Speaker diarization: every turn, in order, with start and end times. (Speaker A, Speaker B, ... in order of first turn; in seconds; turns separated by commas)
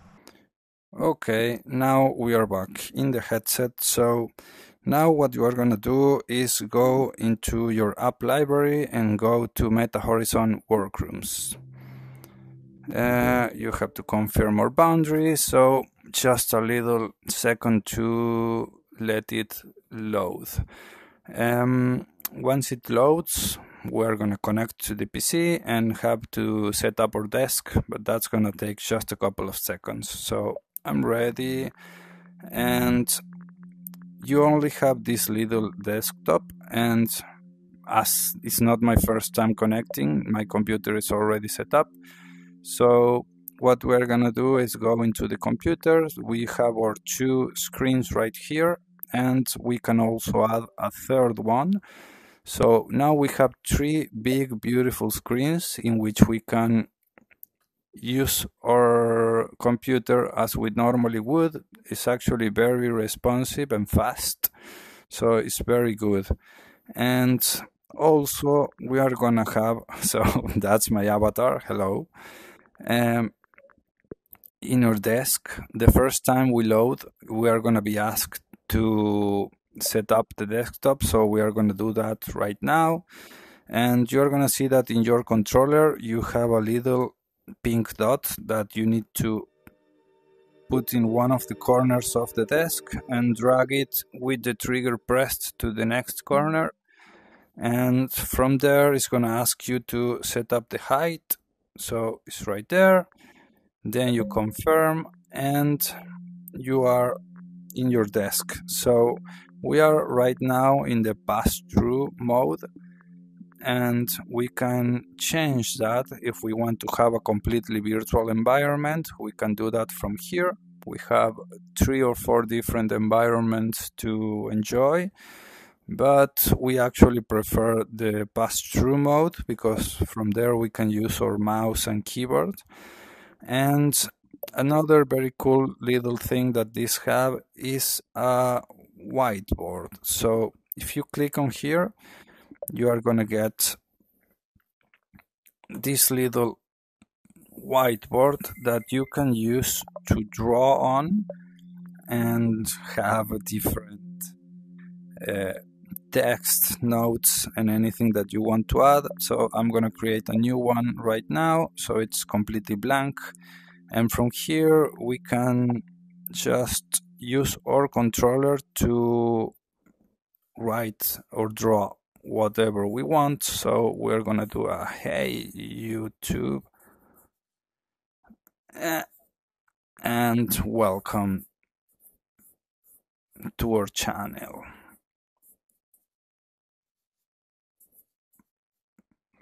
Speaker A: 1.0-4.3, Speaker A: 4.8-11.6, Speaker A: 12.9-20.7, Speaker A: 21.3-31.7, Speaker A: 32.4-33.2, Speaker A: 34.2-37.2, Speaker A: 37.9-41.9, Speaker A: 42.6-51.8, Speaker A: 52.5-56.9, Speaker A: 58.0-64.5, Speaker A: 65.1-66.3, Speaker A: 66.9-72.1, Speaker A: 72.8-73.3, Speaker A: 74.6-83.0, Speaker A: 83.7-89.5, Speaker A: 90.7-96.7, Speaker A: 97.6-103.1, Speaker A: 103.8-105.9, Speaker A: 106.6-107.2, Speaker A: 107.8-112.7, Speaker A: 113.6-125.1, Speaker A: 125.9-132.7, Speaker A: 133.4-141.9, Speaker A: 142.7-143.8, Speaker A: 145.7-146.6, Speaker A: 147.6-151.3, Speaker A: 152.1-154.3, Speaker A: 155.2-155.6, Speaker A: 156.1-163.3, Speaker A: 163.9-169.5, Speaker A: 170.6-176.7, Speaker A: 178.8-179.1, Speaker A: 180.0-181.4, Speaker A: 183.6-184.7